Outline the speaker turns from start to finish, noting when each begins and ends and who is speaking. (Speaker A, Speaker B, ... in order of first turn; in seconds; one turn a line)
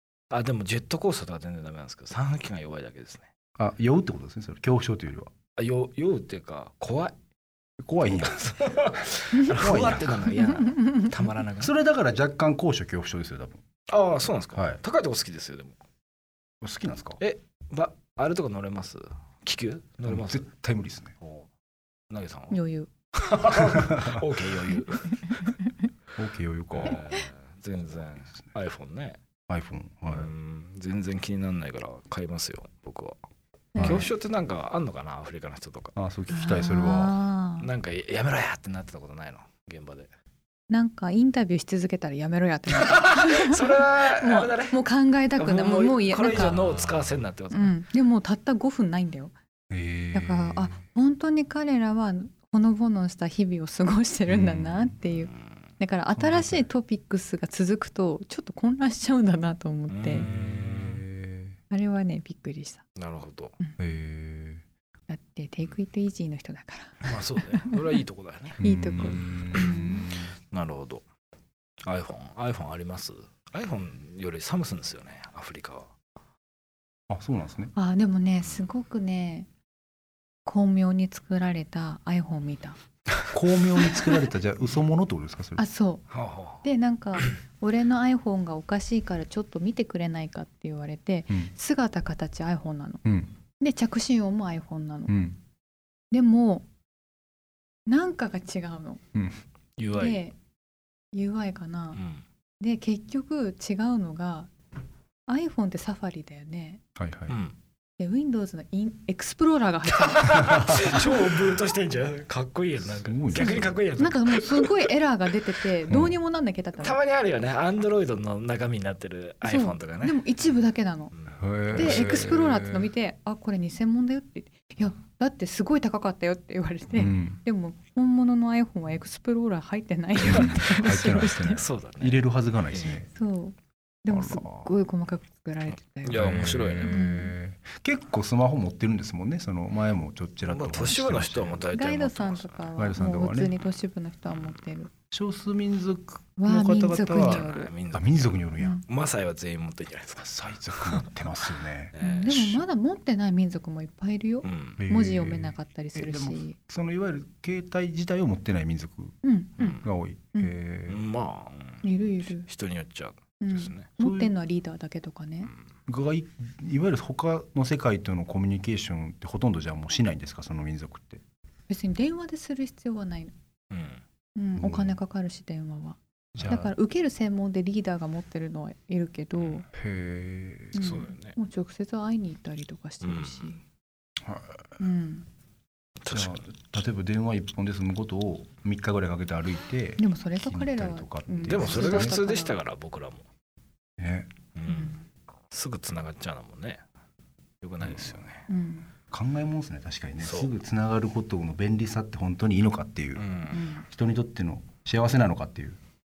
Speaker A: 0.3-3.3
Speaker B: 3.6-5.3
Speaker A: 5.6-7.2
Speaker B: 7.8-8.4
Speaker A: 8.2-11.7
Speaker B: 9.5-10.2
Speaker B: 11.6-13.6
Speaker A: 13.9-15.8
Speaker B: 14.6-14.8
Speaker B: 16.6-17.2
Speaker A: 17.2-20.5
Speaker B: 20.1-21.1
Speaker A: 21.2-21.5
Speaker A: 22.1-22.6
Speaker C: 22.5-22.9
Speaker A: 23.2-25.5
Speaker B: 23.6-24.2
Speaker C: 25.3-25.7
Speaker B: 26.2-27.0
Speaker A: 26.7-29.2
Speaker B: 29.5-30.3
Speaker A: 30.1-33.2
Speaker C: 33.8-34.1
Speaker A: 33.8-36.0
Speaker B: 33.8-34.1
Speaker B: 36.0-37.2
Speaker C: 36.3-37.7
Speaker A: 37.6-40.1
Speaker C: 40.7-46.6
Speaker A: 42.7-44.8
Speaker A: 45.4-47.8
Speaker B: 46.5-47.2
Speaker C: 47.5-49.3
Speaker B: 49.7-50.8
Speaker C: 50.1-60.3
Speaker B: 54.3-55.0
Speaker A: 59.9-61.0
Speaker B: 60.7-61.6
Speaker C: 61.7-62.9
Speaker A: 63.0-63.6
Speaker B: 63.8-64.6
Speaker C: 65.1-67.8
Speaker A: 67.0-69.8
Speaker C: 68.6-70.1
Speaker B: 68.6-70.3
Speaker A: 70.5-71.0
Speaker A: 71.8-75.9
Speaker B: 77.1-77.7
Speaker C: 77.8-79.5
Speaker C: 80.5-82.8
Speaker B: 83.3-85.6
Speaker C: 85.6-86.0
Speaker A: 86.1-86.7
Speaker C: 86.6-93.0
Speaker B: 93.0-93.3
Speaker C: 93.6-95.1
Speaker B: 95.1-95.4
Speaker C: 96.1-96.7
Speaker C: 97.9-99.0
Speaker B: 99.2-99.4
Speaker A: 99.8-100.2
Speaker C: 99.9-100.4
Speaker C: 101.1-102.0
Speaker A: 101.9-102.2
Speaker C: 102.6-104.5
Speaker C: 105.3-106.8
Speaker B: 107.0-107.4
Speaker A: 107.3-107.6
Speaker C: 108.0-111.1
Speaker A: 109.9-114.9
Speaker B: 112.9-113.8
Speaker C: 113.3-117.0
Speaker B: 115.9-116.2
Speaker A: 116.8-120.3
Speaker C: 119.4-121.1
Speaker A: 121.1-122.4
Speaker B: 121.4-122.9
Speaker C: 121.7-131.6
Speaker B: 126.9-127.4
Speaker B: 130.2-133.1
Speaker A: 130.3-133.0
Speaker C: 133.1-137.3
Speaker B: 134.1-134.7
Speaker A: 136.0-137.0
Speaker B: 136.1-141.6
Speaker A: 140.4-142.7
Speaker C: 141.7-144.9
Speaker B: 142.8-143.5
Speaker B: 145.1-148.8
Speaker C: 146.4-147.7
Speaker A: 147.1-151.1
Speaker B: 150.2-152.6
Speaker A: 151.9-152.4
Speaker C: 152.0-156.6
Speaker A: 154.4-154.8
Speaker B: 154.8-159.2
Speaker C: 159.2-159.8
Speaker A: 159.6-159.8
Speaker B: 159.8-161.0
Speaker A: 160.9-163.9
Speaker C: 161.8-162.5
Speaker C: 163.4-165.5
Speaker B: 164.0-164.3
Speaker B: 165.9-171.2
Speaker C: 171.7-173.3
Speaker A: 173.7-174.0
Speaker C: 174.4-179.7
Speaker B: 174.6-175.0
Speaker B: 176.3-176.7
Speaker B: 179.7-181.0
Speaker C: 180.7-183.6
Speaker A: 180.8-181.4
Speaker A: 183.0-183.6
Speaker B: 184.2-184.7
Speaker C: 184.8-185.3
Speaker A: 186.0-186.4
Speaker B: 186.1-192.2
Speaker C: 190.0-192.6
Speaker A: 191.5-193.2
Speaker B: 194.0-194.3
Speaker A: 194.6-195.0
Speaker C: 194.7-195.0
Speaker A: 195.5-196.8
Speaker A: 197.6-198.4
Speaker B: 197.8-198.3
Speaker C: 198.5-198.9
Speaker B: 199.1-203.2
Speaker A: 200.2-200.5
Speaker A: 203.2-203.6
Speaker C: 203.5-203.8
Speaker B: 203.8-205.8